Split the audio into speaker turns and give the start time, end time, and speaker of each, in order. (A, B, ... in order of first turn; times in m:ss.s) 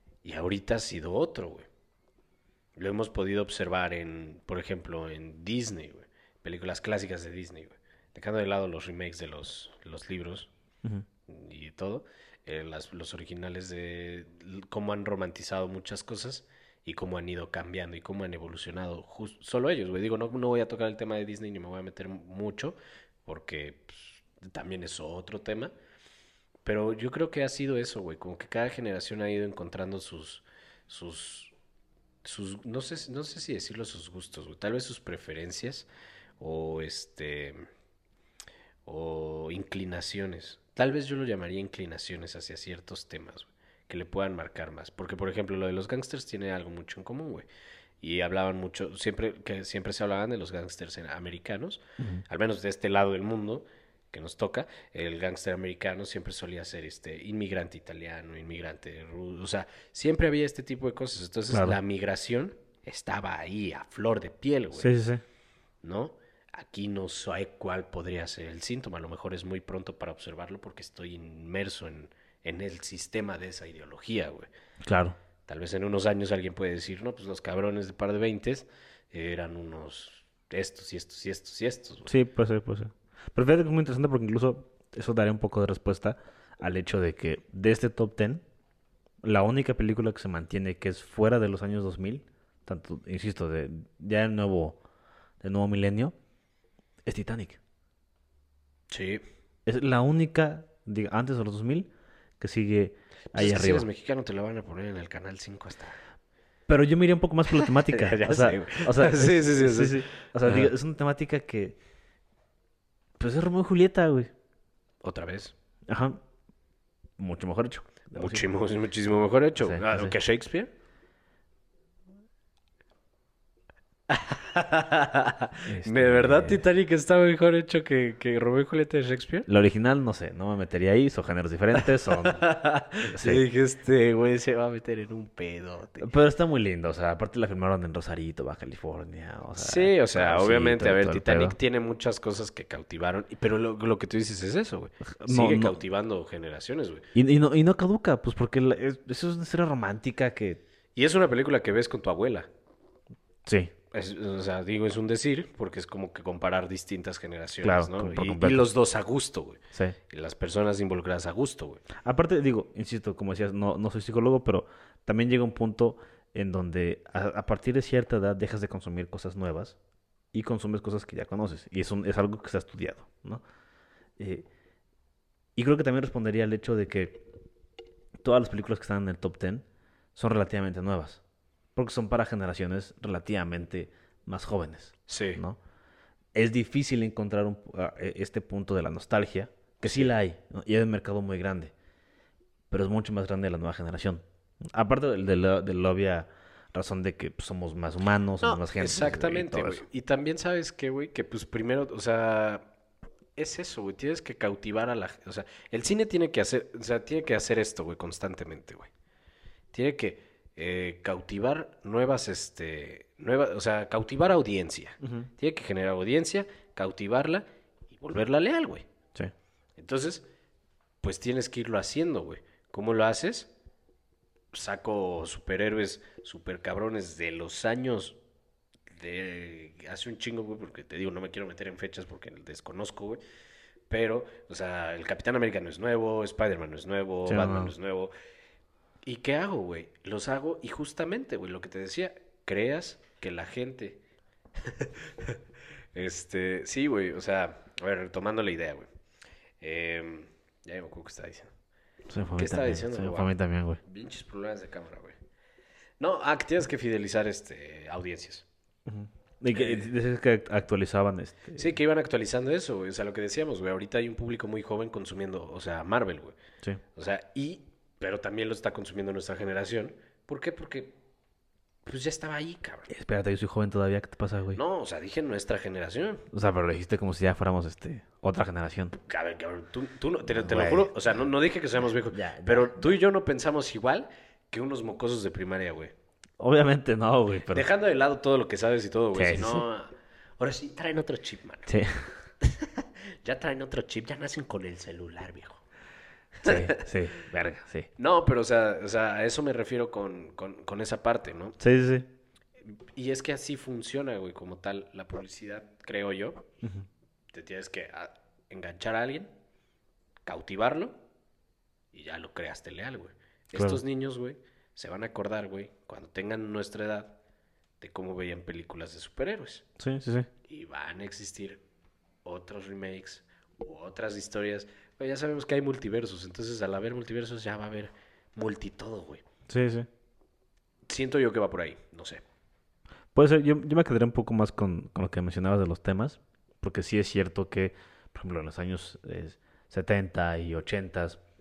0:00.2-0:01.7 A
0:02.8-0:10.5 A
0:11.3-0:25.7 A
0:26.6-0:31.5 A
0:32.2-0:35.9 A
0:36.4-0:37.6 A
0:38.9-0:47.5 A
0:48.0-1:04.9 A
1:01.5-1:01.8 B
1:04.8-1:05.2 B
1:05.8-1:14.5 A
1:14.8-1:15.2 B
1:15.5-1:22.1 A
1:22.1-1:28.4 B
1:29.2-1:34.8 B
1:35.4-1:36.2 B
1:37.1-1:37.6 B
1:38.9-1:39.2 A
1:39.7-1:41.9 B
1:42.4-1:43.9 B
1:43.3-1:46.0 A
1:46.7-1:51.8 B
1:47.5-1:50.7 A
1:53.2-1:54.3 B
1:55.0-1:55.5 A
1:55.9-1:56.2 B
1:57.2-1:58.4 B
1:58.2-2:00.7 A
1:59.6-2:00.2 B
2:04.1-2:09.5 A
2:05.7-2:06.6 B
2:09.5-2:12.5 B
2:11.8-2:16.1 A
2:13.1-2:13.4 B
2:16.0-2:21.6 B
2:19.6-2:27.1 A
2:25.0-2:25.8 B
2:27.2-2:30.6 B
2:31.0-2:32.5 A
2:33.5-2:33.7 B
2:33.9-2:41.8 A
2:37.6-2:38.7 B
2:42.0-2:49.8 B
2:50.3-2:53.4 B
2:54.2-2:54.5 B
2:55.6-2:57.3 B
2:58.2-2:59.6 B
3:00.2-3:01.2 B
3:01.8-3:05.6 B
3:05.1-3:05.4 A
3:06.3-3:11.7 B
3:09.8-3:10.1 A
3:12.7-3:19.8 B
3:18.4-3:22.7 A
3:23.4-3:28.9 A
3:29.7-3:38.9 A
3:35.0-3:35.3 B
3:39.8-3:40.3 A
3:41.0-3:43.5 A
3:44.5-3:48.2 A
3:48.9-3:53.2 A
3:53.9-3:58.1 A
3:57.3-3:57.7 B
3:59.1-4:04.0 A
4:04.6-4:05.4 A
4:05.9-4:08.9 A
4:09.6-4:11.5 A
4:12.1-4:13.8 B
4:12.4-4:13.3 A
4:13.8-4:15.2 A
4:16.0-4:18.5 A
4:18.9-4:21.7 B
4:19.5-4:19.9 A
4:21.6-4:26.4 A
4:27.0-4:31.0 A
4:31.9-4:32.9 A
4:32.9-4:34.6 B
4:34.5-4:36.2 A
4:36.3-4:39.0 B
4:39.1-4:45.9 A
4:40.3-4:40.9 B
4:42.1-4:42.9 B
4:46.4-4:47.7 B
4:47.5-4:51.7 A
4:49.2-4:49.7 B
4:51.7-4:52.1 B
4:52.4-4:55.6 A
4:56.4-4:56.9 A
4:56.4-4:57.9 B
4:58.0-5:01.6 A
5:01.6-5:02.1 B
5:03.0-5:06.5 A
5:07.3-5:09.3 A
5:10.3-5:11.0 A
5:11.9-5:17.2 A
5:13.6-5:13.8 B
5:17.8-5:19.6 A
5:19.8-5:20.3 B
5:20.4-5:21.6 A
5:22.2-5:29.2 A
5:29.5-5:29.9 B
5:30.9-5:32.2 A
5:33.1-5:41.2 B